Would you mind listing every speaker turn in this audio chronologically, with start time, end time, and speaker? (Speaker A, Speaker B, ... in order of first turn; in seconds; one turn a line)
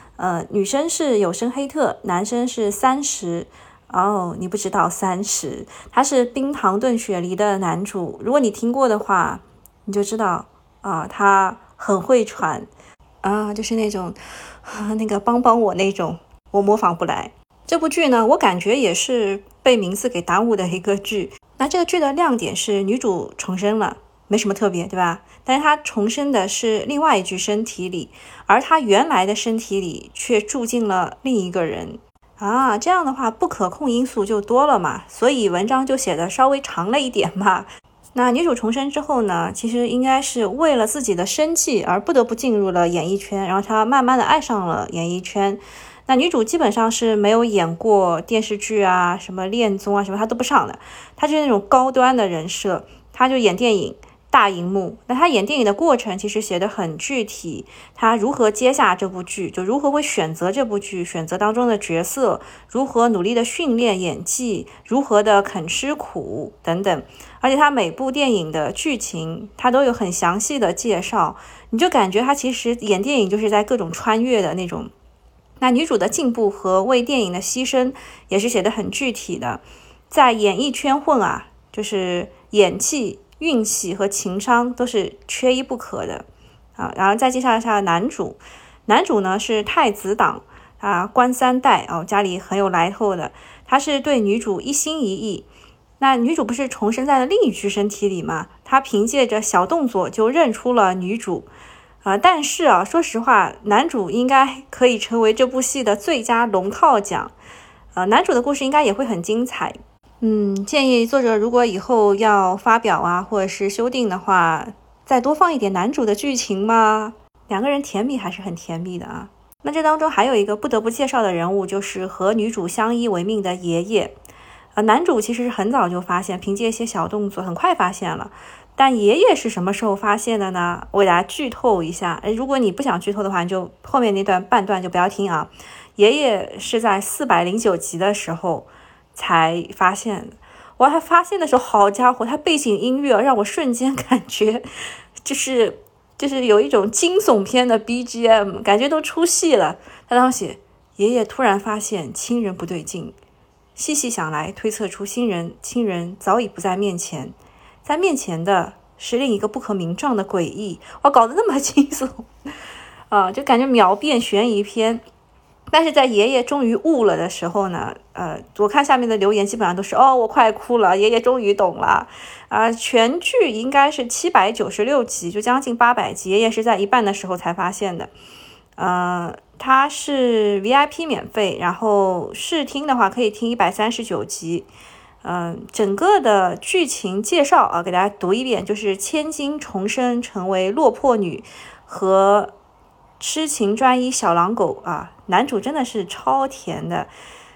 Speaker A: 0.2-12.7
Speaker A: 13.2-74.9
Speaker A: 75.6-86.2
Speaker A: 86.8-95.5
Speaker A: 96.0-101.5
Speaker A: 102.0-107.3
Speaker A: 107.9-124.1
Speaker A: 124.8-144.6
Speaker A: 145.2-153.1
Speaker A: 153.8-162.3
Speaker A: 163.1-165.0
Speaker A: 165.7-178.1
Speaker A: 178.8-184.7
Speaker A: 185.2-192.5
Speaker A: 193.2-197.1